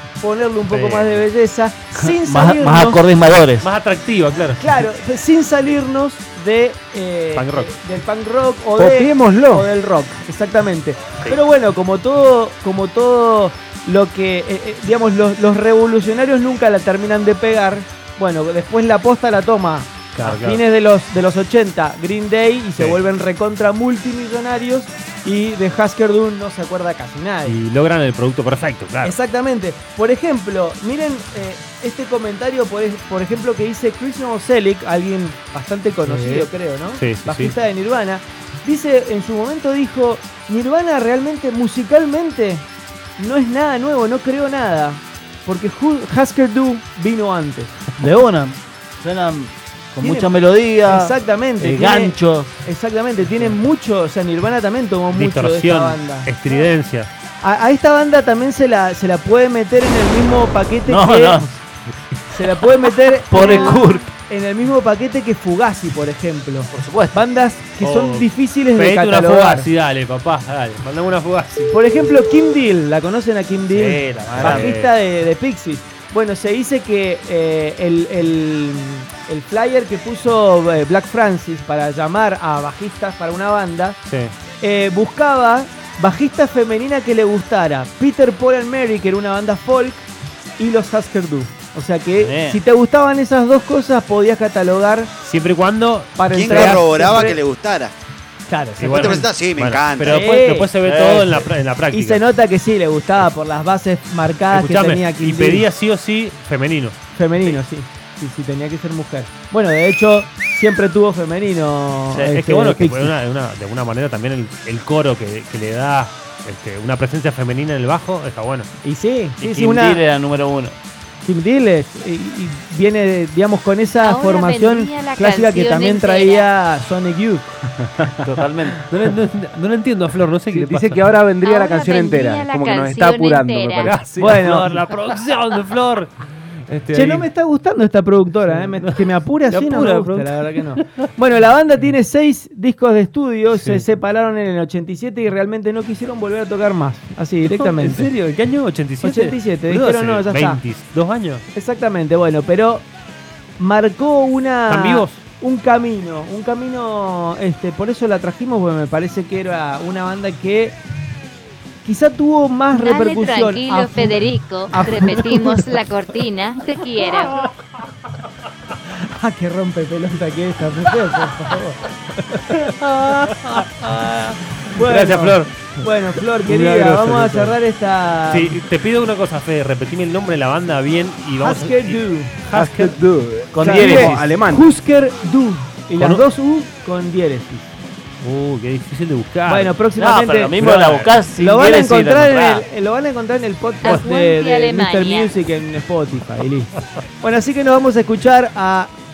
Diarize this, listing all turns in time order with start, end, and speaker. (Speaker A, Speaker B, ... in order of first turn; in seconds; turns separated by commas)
Speaker A: 0.2-3.0, Speaker B: 0.7-1.2, Speaker C: 2.0-3.7, Speaker B: 3.6-4.6, Speaker A: 4.6-27.6, Speaker B: 7.3-7.7, Speaker D: 8.8-9.7, Speaker B: 20.1-20.6, Speaker B: 27.4-29.1, Speaker A: 29.0-42.6, Speaker B: 36.0-37.5, Speaker A: 43.2-47.8, Speaker C: 48.0-52.6, Speaker A: 50.0-50.3, Speaker A: 50.8-56.6, Speaker B: 55.1-57.1, Speaker A: 57.4-61.6, Speaker C: 60.9-61.5, Speaker A: 62.3-69.7, Speaker C: 62.5-64.1, Speaker C: 66.7-67.2, Speaker B: 67.8-71.7, Speaker A: 71.7-84.0, Speaker C: 73.7-74.8, Speaker B: 73.8-74.9, Speaker B: 84.1-84.3, Speaker A: 84.6-90.0, Speaker A: 90.6-95.1, Speaker C: 92.2-92.6, Speaker B: 95.2-96.8, Speaker A: 96.2-97.4, Speaker E: 96.3-97.9, Speaker A: 98.5-99.3, Speaker B: 98.8-102.2, Speaker E: 98.9-100.2, Speaker A: 100.0-100.7, Speaker C: 100.8-101.5, Speaker A: 101.9-105.7, Speaker B: 104.5-107.0, Speaker A: 107.2-113.2, Speaker B: 112.3-118.7, Speaker A: 118.8-120.0, Speaker C: 119.4-120.8, Speaker A: 121.2-127.5, Speaker F: 124.0-126.5, Speaker C: 128.0-128.8, Speaker B: 128.7-131.1, Speaker D: 130.5-134.0, Speaker F: 131.4-133.9, Speaker B: 133.8-136.1, Speaker A: 134.2-134.7, Speaker B: 136.7-137.3, Speaker A: 136.9-148.1, Speaker B: 138.5-138.9, Speaker B: 139.5-140.8, Speaker B: 143.6-143.8, Speaker B: 147.4-151.4, Speaker A: 149.0-150.6, Speaker A: 151.6-152.8, Speaker A: 153.6-160.8, Speaker B: 154.7-155.2, Speaker A: 161.8-165.8, Speaker F: 162.7-167.4, Speaker A: 168.9-172.8, Speaker B: 172.5-175.8, Speaker A: 174.7-178.6, Speaker D: 176.5-177.4, Speaker B: 178.3-183.0, Speaker A: 181.4-182.3, Speaker D: 182.5-184.7, Speaker C: 183.5-184.3, Speaker A: 183.6-187.7, Speaker B: 186.0-186.2, Speaker B: 188.2-189.8, Speaker A: 189.5-198.9, Speaker C: 190.0-192.7, Speaker B: 190.6-191.1, Speaker F: 193.8-195.3